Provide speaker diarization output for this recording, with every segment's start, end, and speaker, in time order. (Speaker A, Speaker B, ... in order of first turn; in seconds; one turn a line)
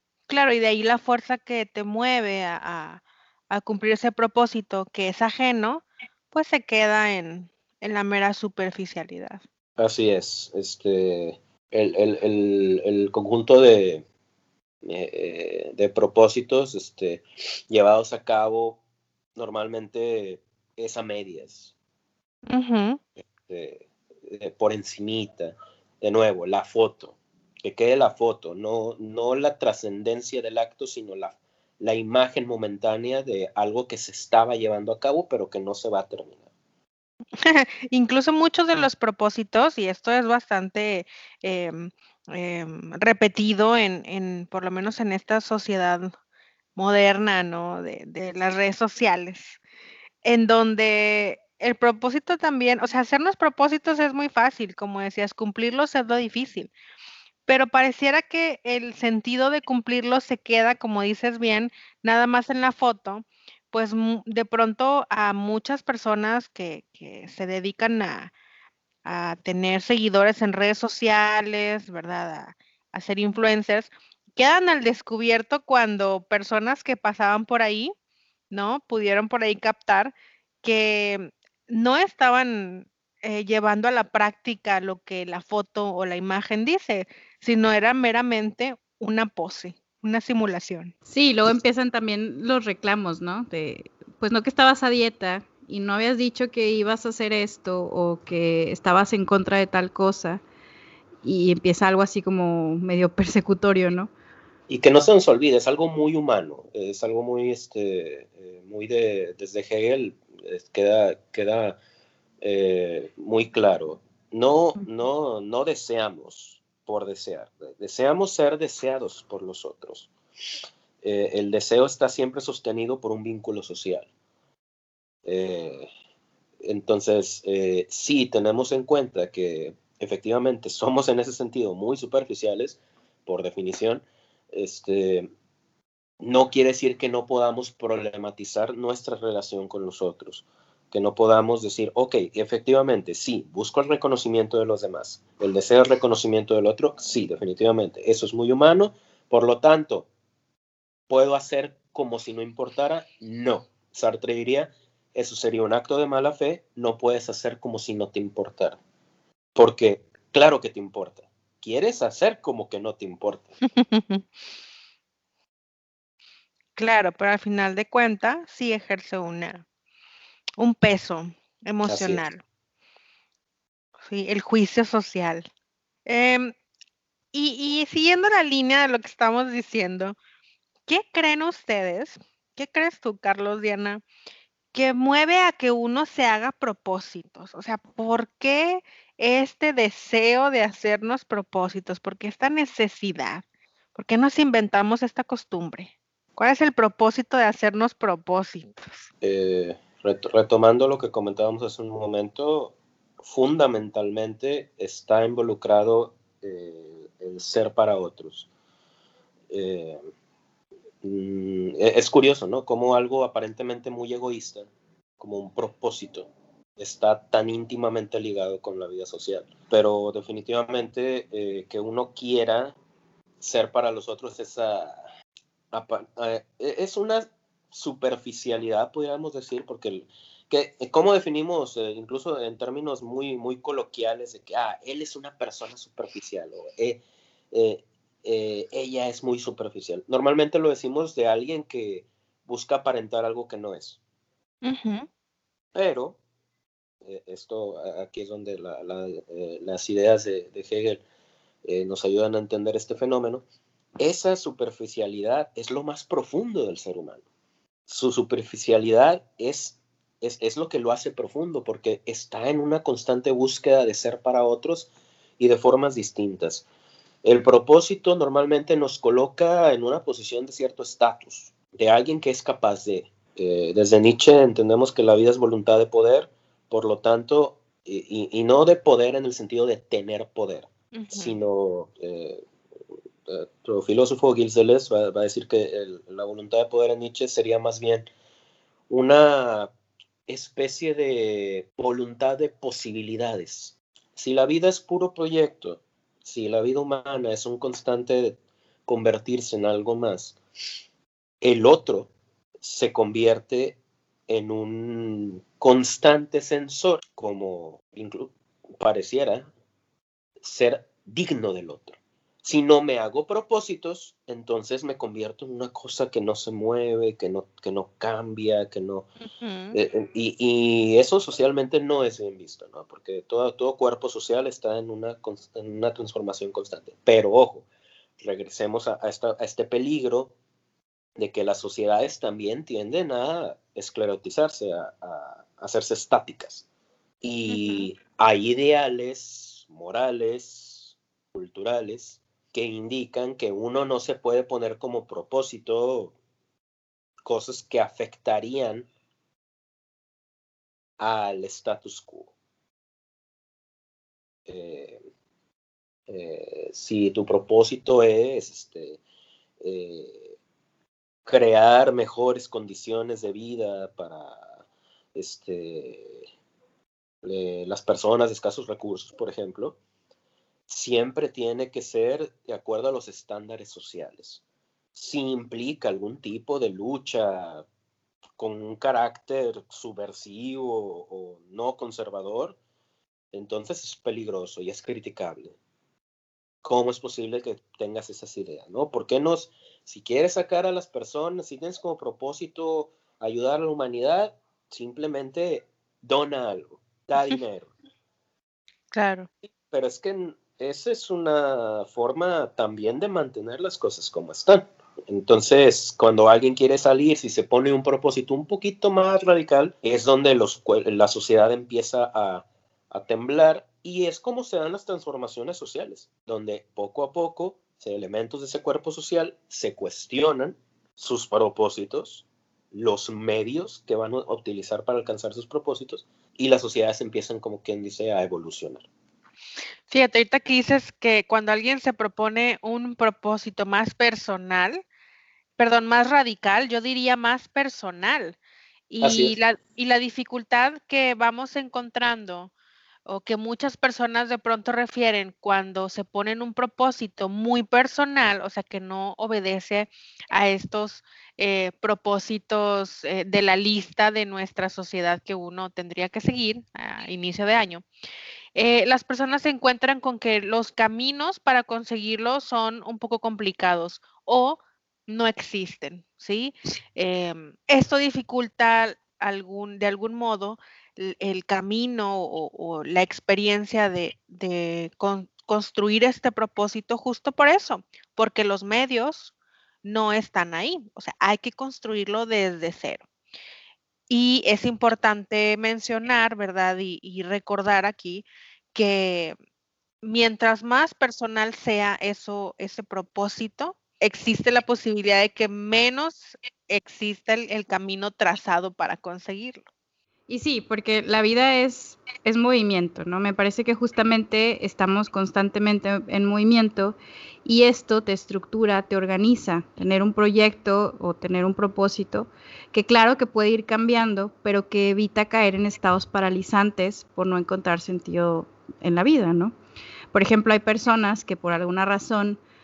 Speaker A: 0.3-9.4
Speaker B: 9.8-14.0
Speaker B: 14.8-18.8
Speaker B: 19.4-21.7
Speaker A: 22.5-23.0
Speaker B: 23.2-36.4
Speaker A: 37.4-46.1
Speaker A: 46.8-49.6
Speaker A: 50.2-56.7
Speaker A: 57.5-68.3
Speaker A: 69.0-77.9
Speaker A: 78.5-90.9
Speaker C: 91.1-100.4
Speaker C: 101.2-104.1
Speaker B: 104.7-111.8
Speaker B: 112.4-120.1
Speaker B: 121.0-124.1
Speaker B: 125.2-125.9
Speaker B: 126.6-135.3
Speaker B: 136.2-150.1
Speaker B: 151.1-158.8
Speaker B: 159.5-163.5
Speaker A: 163.8-164.2
Speaker A: 166.8-169.6
Speaker A: 170.6-172.4
Speaker B: 171.8-172.2
Speaker A: 174.0-175.5
Speaker A: 176.1-176.5
Speaker A: 177.3-180.2
Speaker A: 180.9-184.0
Speaker A: 184.7-193.4
Speaker A: 193.9-198.8
Speaker B: 199.2-208.5
Speaker B: 209.5-210.0
Speaker B: 211.0-222.7
Speaker B: 223.4-225.0
Speaker B: 225.7-237.0
Speaker B: 237.5-244.0
Speaker A: 244.6-245.1
Speaker B: 245.7-246.2
Speaker B: 247.0-251.0
Speaker B: 251.6-253.4
Speaker B: 254.0-257.2
Speaker B: 257.9-266.6
Speaker B: 267.2-282.4
Speaker A: 280.9-281.4
Speaker B: 283.3-288.1
Speaker B: 288.9-289.7
Speaker B: 290.3-300.4
Speaker B: 301.4-309.5
Speaker B: 310.4-319.1
Speaker A: 319.2-319.8
Speaker B: 319.7-327.6
Speaker B: 328.2-330.3
Speaker B: 331.2-336.6
Speaker B: 337.2-346.1
Speaker A: 337.5-337.9
Speaker B: 347.2-348.9
Speaker B: 351.0-352.3
Speaker B: 354.5-355.0
Speaker B: 356.1-359.0
Speaker B: 359.6-360.3
Speaker B: 361.2-364.5
Speaker B: 365.1-366.2
Speaker B: 367.2-369.8
Speaker B: 370.7-374.4
Speaker B: 374.9-377.6
Speaker B: 378.4-382.6
Speaker B: 383.3-385.5
Speaker B: 386.6-397.7
Speaker A: 398.9-399.3
Speaker B: 399.7-428.8
Speaker A: 429.9-434.8
Speaker A: 435.6-438.4
Speaker A: 438.9-442.5
Speaker B: 439.0-439.3
Speaker A: 443.1-457.8
Speaker A: 458.5-479.3
Speaker A: 479.8-483.0
Speaker A: 484.1-489.4
Speaker A: 490.0-499.6
Speaker C: 500.3-519.5
Speaker C: 520.1-522.4